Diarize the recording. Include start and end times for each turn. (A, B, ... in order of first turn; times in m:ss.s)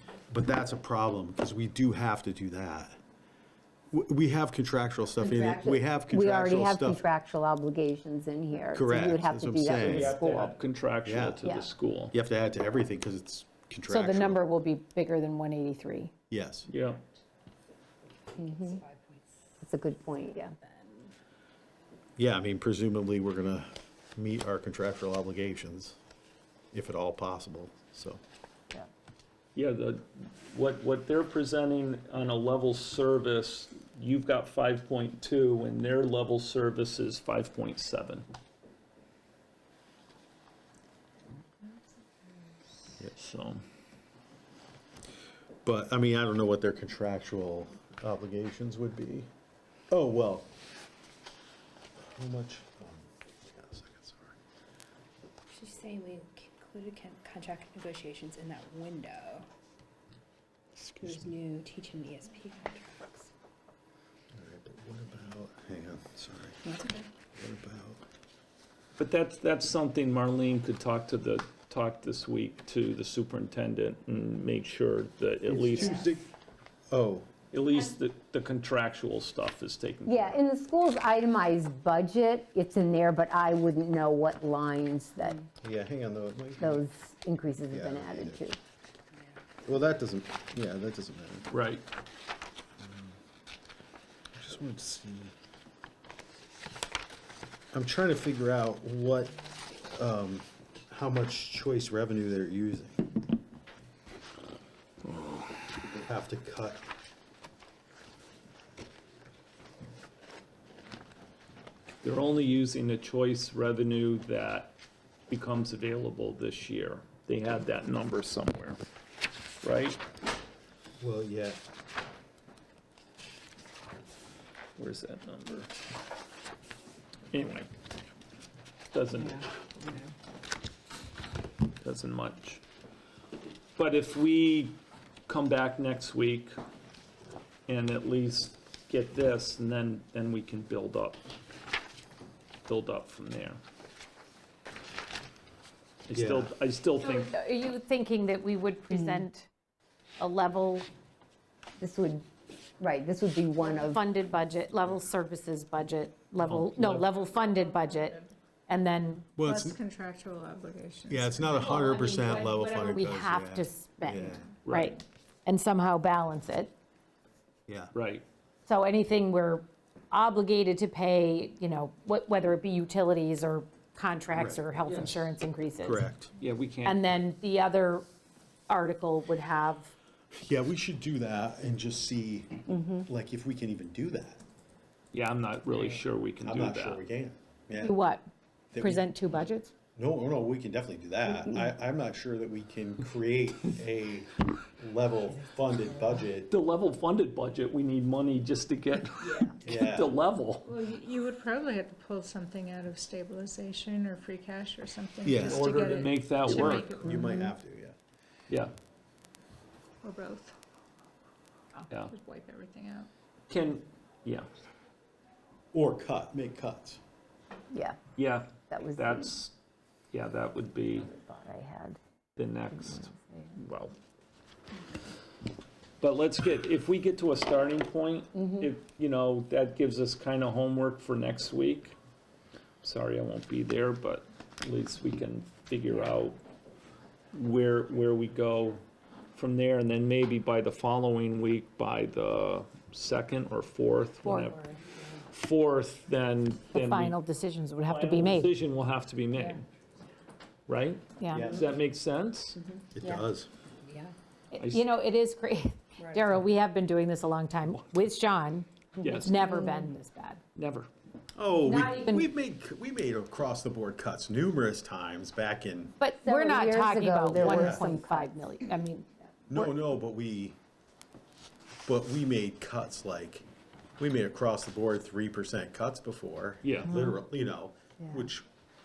0:00.3-0:03.0 A
0:03.9-0:07.0 A
0:05.2-0:10.5 B
0:08.7-0:10.2 A
0:09.7-0:12.2 C
0:11.0-0:11.5 A
0:12.1-0:14.5 A
0:13.9-0:16.1 D
0:16.3-0:16.7 A
0:16.7-0:17.0 C
0:18.4-0:18.8 B
0:18.7-0:19.2 E
0:19.6-0:20.6 B
0:20.6-0:21.1 E
0:22.2-0:26.0 A
0:26.7-0:28.2 A
0:29.6-0:38.3 C
0:43.1-0:43.6 C
0:45.6-0:49.3 A
0:49.9-0:50.5 A
0:52.0-0:54.4 A
0:55.5-0:59.4 E
1:00.8-1:01.3 A
1:01.0-1:03.3 E
1:04.3-1:06.7 A
1:06.6-1:07.0 E
1:07.4-1:08.0 A
1:09.0-1:16.1 C
1:15.5-1:16.3 A
1:16.9-1:17.3 A
1:17.5-1:20.4 C
1:20.0-1:25.4 B
1:25.6-1:26.8 A
1:26.6-1:28.6 B
1:27.7-1:28.4 A
1:29.6-1:31.5 A
1:31.5-1:31.8 C
1:32.8-1:33.2 A
1:34.4-1:35.4 A
1:37.7-1:43.0 A
1:45.1-1:45.4 C
1:46.0-1:46.8 A
1:52.0-1:54.8 C
1:55.3-1:58.8 C
1:59.6-2:00.0 C
2:01.0-2:01.6 A
2:04.8-2:05.7 C
2:07.3-2:07.7 C
2:08.9-2:09.5 C
2:09.3-2:10.0 F
2:11.8-2:12.6 C
2:13.8-2:16.6 C
2:17.7-2:21.2 C
2:22.7-2:23.6 C
2:26.1-2:27.3 C
2:26.1-2:26.5 A
2:27.0-2:29.5 D
2:28.9-2:29.2 B
2:30.2-2:30.9 D
2:31.8-2:32.2 B
2:32.8-2:34.0 B
2:33.6-2:38.2 D
2:36.4-2:37.1 C
2:37.4-2:38.3 F
2:38.7-2:39.4 D
2:39.4-2:39.8 A
2:39.4-2:41.7 F
2:41.1-2:44.6 A
2:41.5-2:46.7 D
2:44.6-2:45.0 C
2:47.9-2:48.2 C
2:48.7-2:56.1 D
2:54.3-2:55.2 A
2:55.8-2:56.3 A
2:56.4-2:57.0 C
2:56.8-2:58.0 D
2:58.7-2:59.9 D
3:00.4-3:04.4 A
3:02.7-3:03.1 B
3:05.1-3:07.0 C
3:06.4-3:08.0 A
3:07.8-3:08.2 D
3:08.7-3:09.2 A
3:08.8-3:09.7 D
3:10.0-3:16.5 A
3:11.3-3:11.6 B
3:16.5-3:20.7 C
3:19.6-3:20.1 A
3:20.7-3:27.3 F
3:25.2-3:25.7 A
3:25.4-3:26.9 C
3:26.5-3:28.0 A
3:27.1-3:27.5 B
3:30.0-3:30.6 F
3:32.1-3:33.1 F
3:33.5-3:34.5 C
3:35.7-3:37.0 A
3:37.7-3:38.0 B
3:38.2-3:39.5 C
3:38.7-3:39.3 B
3:40.1-3:41.1 C
3:41.1-3:42.0 B
3:42.4-3:43.9 C
3:42.8-3:43.2 B
3:46.0-3:52.0 C
3:48.4-3:48.7 B
3:52.8-3:56.4 C
3:57.3-3:58.8 C
3:59.3-4:04.6 C
4:04.2-4:04.6 D
4:05.3-4:07.2 C
4:06.7-4:08.5 D
4:07.8-4:09.6 C
4:10.7-4:12.6 C
4:11.2-4:11.5 D
4:11.3-4:11.7 A
4:12.9-4:13.5 A
4:13.8-4:14.2 E
4:14.5-4:20.4 D
4:14.6-4:14.8 C
4:19.0-4:19.9 B
4:19.0-4:19.4 C
4:20.6-4:20.9 C
4:21.4-4:26.0 A
4:21.6-4:22.3 D
4:26.0-4:29.8 D
4:26.2-4:28.4 B
4:27.4-4:28.0 A
4:29.5-4:30.6 A
4:31.9-4:33.5 A
4:34.0-4:38.5 A
4:36.6-4:37.0 C
4:36.9-4:37.2 D